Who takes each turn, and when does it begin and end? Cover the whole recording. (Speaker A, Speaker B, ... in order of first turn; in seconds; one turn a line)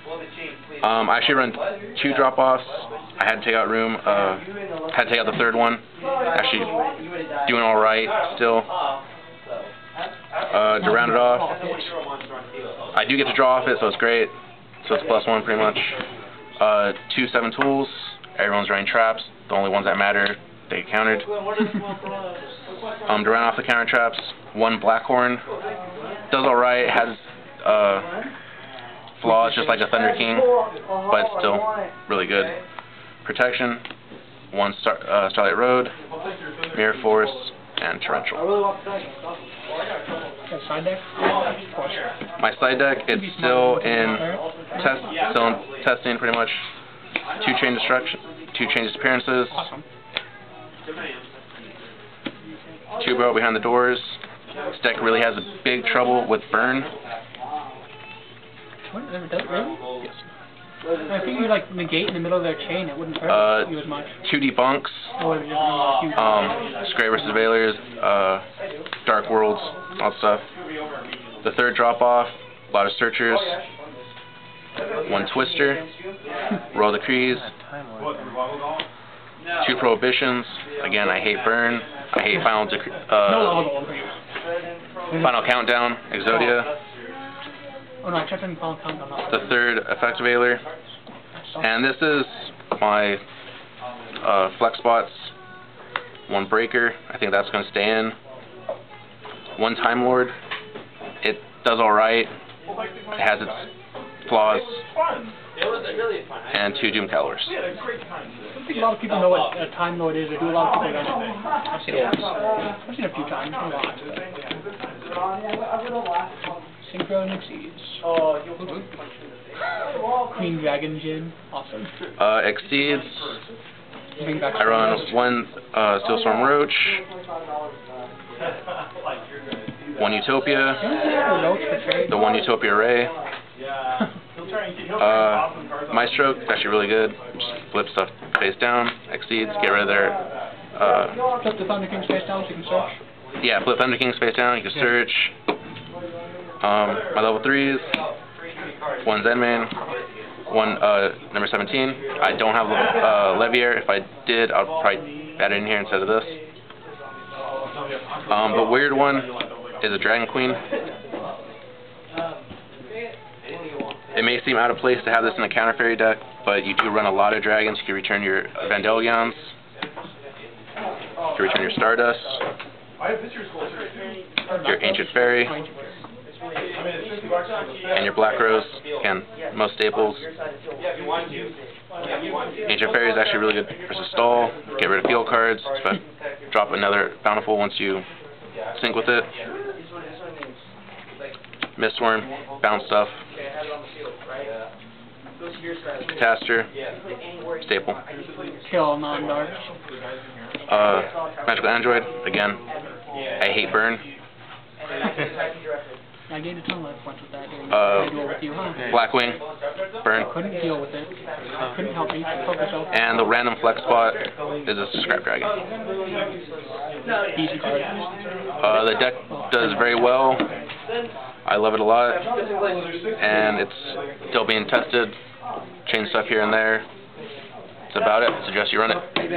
Speaker A: 0.8-5.8
Speaker A: 6.4-6.7
Speaker A: 7.5-8.7
Speaker A: 10.5-11.6
Speaker B: 10.8-11.9
Speaker A: 12.9-16.0
Speaker A: 16.6-21.3
Speaker B: 21.6-22.0
Speaker A: 23.1-25.4
Speaker A: 26.3-28.1
Speaker A: 29.2-30.5
Speaker A: 31.1-32.5
Speaker A: 33.2-33.8
Speaker A: 34.5-36.0
Speaker A: 36.7-38.4
Speaker B: 40.5-41.1
Speaker B: 41.7-42.0
Speaker A: 42.4-44.2
Speaker B: 43.1-45.0
Speaker A: 44.8-46.6
Speaker A: 47.4-49.6
Speaker B: 49.5-49.8
Speaker A: 53.0-54.2
Speaker A: 54.7-56.9
Speaker B: 58.9-60.1
Speaker B: 61.1-64.1
Speaker A: 63.3-63.7
Speaker A: 64.2-65.1
Speaker B: 65.2-66.5
Speaker A: 66.2-68.5
Speaker A: 69.0-70.5
Speaker A: 71.4-73.6
Speaker A: 75.1-75.8
Speaker A: 76.7-77.5
Speaker A: 79.6-83.6
Speaker B: 83.2-84.2
Speaker A: 85.2-86.7
Speaker B: 86.3-86.6
Speaker B: 88.0-89.5
Speaker A: 89.3-90.7
Speaker B: 91.4-91.7
Speaker A: 91.6-93.2
Speaker A: 94.2-95.3
Speaker A: 96.3-98.2
Speaker A: 99.6-100.3
Speaker A: 101.2-102.3
Speaker A: 103.2-103.7
Speaker A: 104.3-104.8
Speaker A: 106.5-107.5
Speaker B: 108.5-112.1
Speaker B: 112.8-114.2
Speaker B: 116.8-118.0
Speaker B: 120.3-121.9
Speaker A: 122.2-123.4
Speaker B: 124.2-125.2
Speaker A: 124.5-127.0
Speaker A: 130.0-130.8
Speaker B: 130.8-132.1
Speaker A: 132.1-133.1
Speaker A: 135.0-140.2
Speaker A: 140.8-141.2
Speaker B: 141.4-143.0
Speaker A: 143.4-145.3
Speaker A: 146.6-147.9
Speaker A: 149.0-149.8
Speaker A: 150.5-156.3
Speaker A: 158.3-159.3
Speaker A: 159.8-160.6
Speaker A: 164.2-169.5
Speaker A: 171.3-172.4
Speaker B: 174.5-175.9
Speaker A: 174.7-175.5
Speaker A: 177.9-180.3
Speaker A: 182.7-188.1
Speaker A: 188.7-189.3
Speaker A: 191.8-193.2
Speaker A: 196.1-196.7
Speaker A: 197.6-198.0
Speaker B: 198.7-199.7
Speaker A: 200.7-202.6
Speaker A: 203.4-204.0
Speaker B: 206.3-208.9
Speaker A: 207.7-208.1
Speaker A: 208.9-209.4
Speaker A: 210.0-210.3
Speaker B: 210.2-212.9
Speaker A: 212.9-215.5
Speaker B: 217.3-217.9
Speaker A: 218.6-220.5
Speaker B: 219.3-220.0
Speaker A: 221.5-222.2
Speaker A: 223.2-225.2
Speaker A: 225.8-226.8
Speaker A: 227.9-229.0